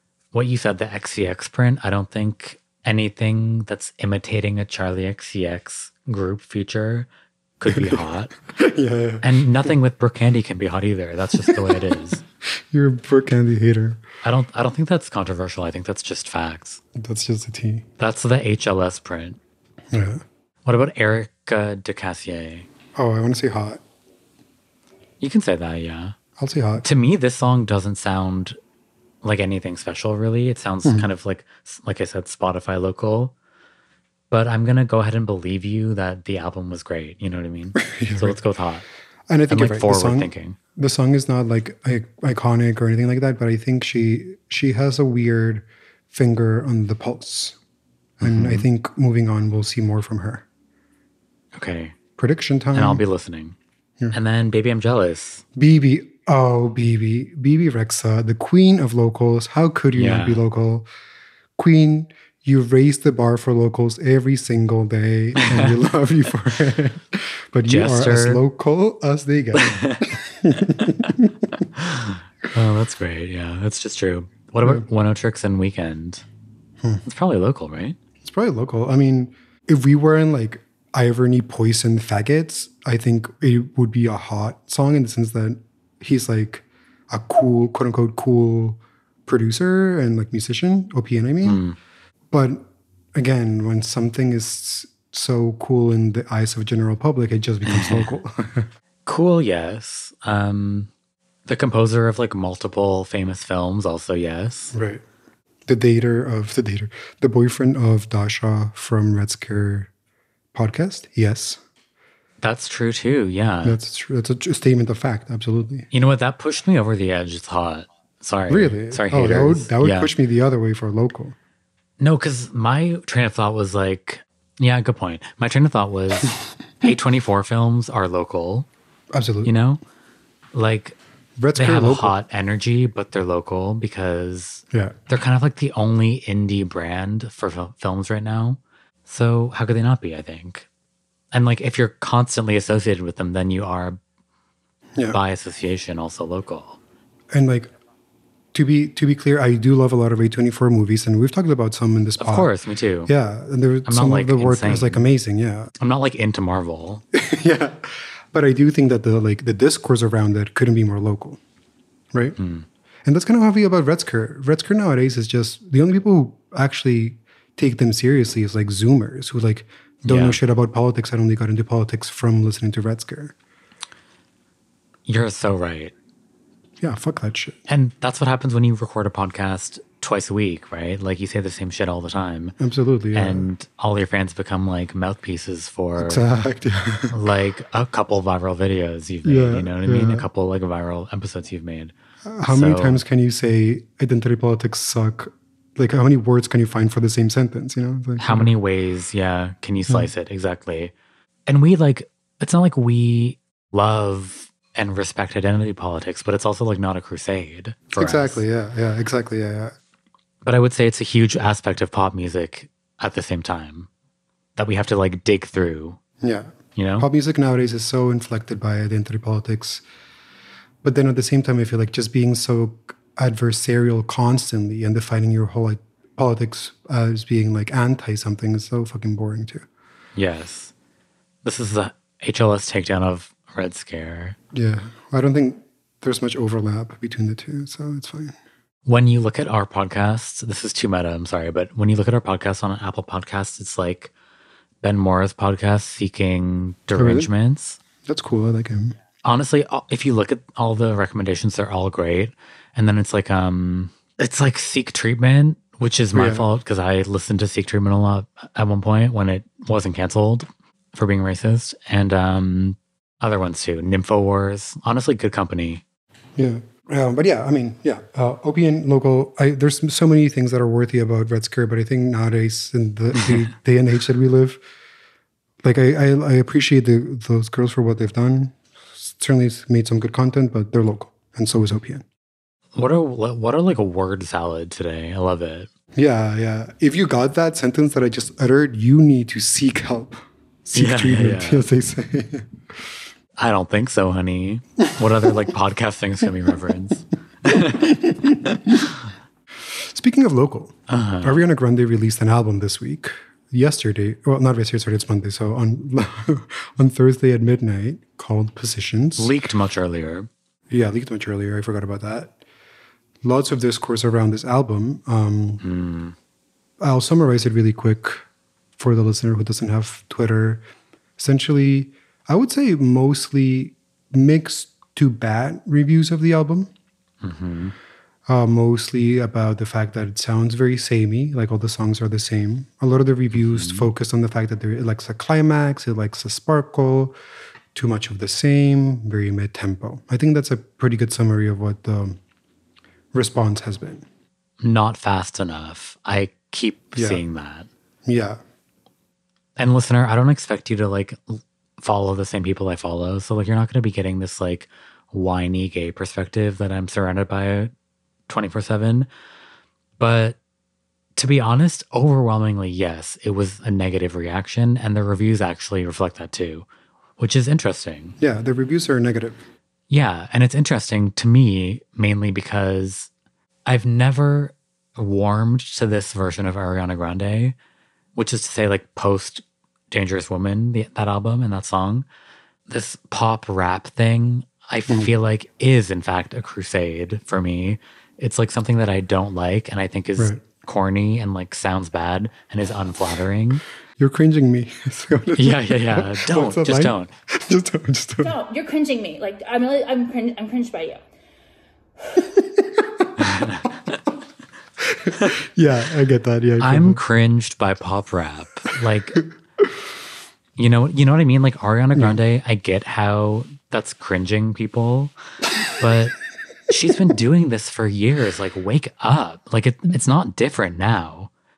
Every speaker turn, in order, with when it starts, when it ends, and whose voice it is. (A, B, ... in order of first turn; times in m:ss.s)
0:00.3-0:07.1 A
0:07.6-0:08.3 A
0:07.7-0:09.3 B
0:09.2-0:12.2 A
0:11.4-0:11.8 B
0:12.7-0:14.0 B
0:14.2-0:16.8 A
0:17.0-0:17.9 B
0:18.0-0:19.4 A
0:19.9-0:20.2 B
0:20.6-0:22.7 A
0:22.9-0:23.8 B
0:25.2-0:26.1 A
0:26.4-0:26.8 B
0:26.8-0:28.6 A
0:29.2-0:33.3 A
0:34.3-0:38.8 A
0:37.8-0:38.4 B
0:39.3-0:47.6 B
0:39.5-0:40.6 A
0:48.2-0:50.4 B
0:48.2-0:48.6 A
0:51.5-0:52.0 A
0:52.2-0:53.0 B
0:52.7-0:53.6 A
0:54.1-0:55.4 A
0:55.6-1:00.9 B
0:59.9-1:00.4 A
1:01.6-1:11.4 B
1:05.4-1:05.7 A
1:07.7-1:08.4 A
1:09.6-1:10.1 A
1:11.7-1:16.2 A
1:17.0-1:18.0 A
1:18.2-1:31.6 B
1:31.4-1:31.8 A
1:32.3-1:38.7 B
1:37.6-1:38.1 A
1:39.1-1:40.9 A
1:41.4-1:44.7 A
1:44.7-1:45.0 B
1:45.7-1:49.9 B
1:50.5-1:51.6 B
1:52.4-1:53.8 A
1:53.6-1:55.9 B
1:55.9-2:00.1 A
1:58.5-2:01.4 B
2:02.0-2:08.7 A
2:09.1-2:09.5 B
2:09.4-2:09.8 A
2:10.5-2:11.0 A
2:11.4-2:12.1 B
2:11.6-2:20.7 A
2:21.3-2:24.0 A
2:25.1-2:26.8 A
2:27.3-2:27.7 B
2:28.5-2:32.5 B
2:32.2-2:33.1 A
2:33.1-2:35.7 B
2:33.9-2:35.1 A
2:35.8-2:37.0 A
2:37.1-2:41.4 B
2:42.4-2:42.6 A
2:43.1-2:53.3 B
2:50.1-2:50.4 A
2:55.1-2:55.9 A
2:56.8-2:57.6 B
2:57.7-3:02.6 A
3:02.6-3:03.5 B
3:03.1-3:06.2 A
3:06.0-3:07.2 B
3:07.1-3:11.9 A
3:09.2-3:10.3 B
3:12.3-3:18.5 B
3:12.4-3:13.0 A
3:18.2-3:20.9 A
3:21.5-3:28.4 A
3:27.9-3:29.8 B
3:30.4-3:33.9 A
3:34.6-3:36.0 A
3:36.2-3:39.8 B
3:36.8-3:37.1 A
3:40.8-3:49.6 B
3:50.2-3:50.7 A
3:51.4-3:54.4 A
3:54.5-3:58.4 B
3:58.9-4:04.1 A
4:04.8-4:07.8 A
4:06.9-4:07.3 B
4:08.0-4:08.9 B
4:09.2-4:25.8 A
4:16.1-4:16.5 B
4:26.4-4:34.6 B
4:35.6-4:42.0 B
4:42.8-4:45.7 A
4:45.9-4:52.5 B
4:50.7-4:51.7 A
4:53.4-4:58.9 A
4:57.5-4:58.9 B
4:59.8-5:09.3 B
5:00.9-5:01.4 A
5:09.2-5:10.3 A
5:10.7-5:12.4 B
5:13.2-5:15.6 B
5:15.6-5:16.1 A
5:16.8-5:18.2 B
5:18.8-5:20.6 B
5:21.2-5:26.7 B
5:27.2-5:27.7 A
5:28.3-5:37.1 B
5:33.3-5:33.9 A
5:37.7-5:42.2 B
5:43.1-5:44.0 B
5:44.6-5:47.7 A
5:46.9-5:47.2 B
5:48.0-5:48.4 B
5:49.6-5:57.7 A
5:58.3-5:59.1 A
6:00.0-6:00.4 A
6:01.2-6:06.6 A
6:07.2-6:08.2 A
6:08.2-6:09.4 B
6:09.9-6:13.1 A
6:13.6-6:17.6 A
6:18.1-6:22.1 A
6:22.7-6:33.6 A
6:34.0-6:38.4 B
6:35.4-6:37.1 A
6:38.2-6:41.0 C
6:42.4-6:43.1 B
6:43.2-6:43.8 A
6:44.8-6:47.0 B
6:46.6-6:49.2 A
6:50.6-6:55.1 A
6:55.7-6:56.1 A
6:56.7-7:01.3 A